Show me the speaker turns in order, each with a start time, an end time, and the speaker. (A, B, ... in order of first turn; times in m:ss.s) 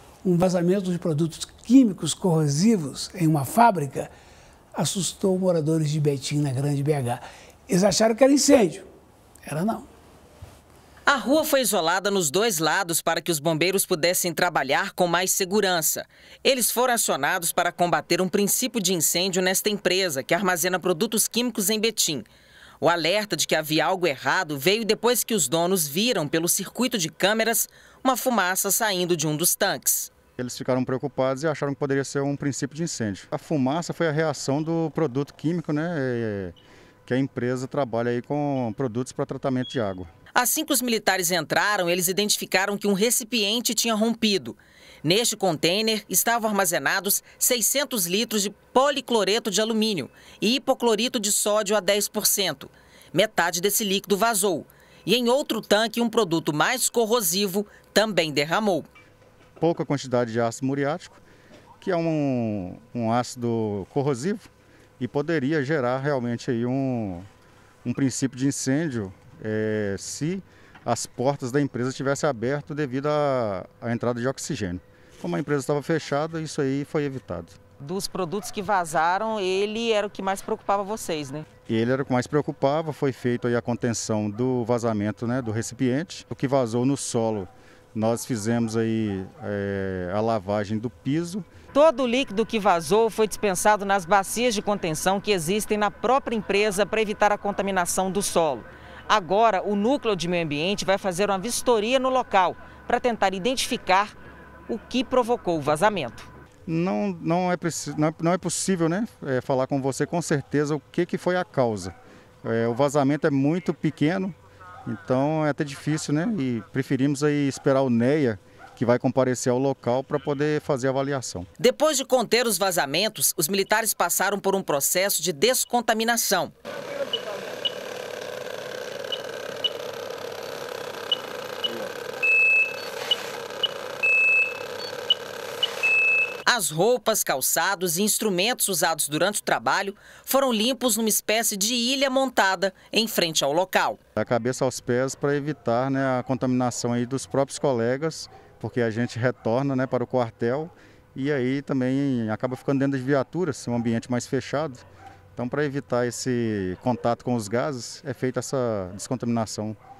0:00.2-0:04.1 A
0:04.7-0:08.9 A
0:09.4-0:09.9 A
0:11.0-0:22.3 B
0:22.8-0:30.1 B
0:30.4-0:36.5 C
0:37.0-0:40.1 C
0:40.3-0:58.9 B
0:59.6-1:01.2 C
1:01.8-1:04.5 C
1:05.0-1:07.3 C
1:07.8-1:17.6 C
1:17.8-1:21.4 B
1:21.7-1:31.5 C
1:31.7-1:44.1 B
1:44.7-1:46.3 B
1:46.6-1:54.3 C
1:54.8-2:01.5 C
2:01.6-2:06.5 B
2:16.4-2:24.0 B
2:24.2-2:34.8 C
2:35.4-2:39.8 C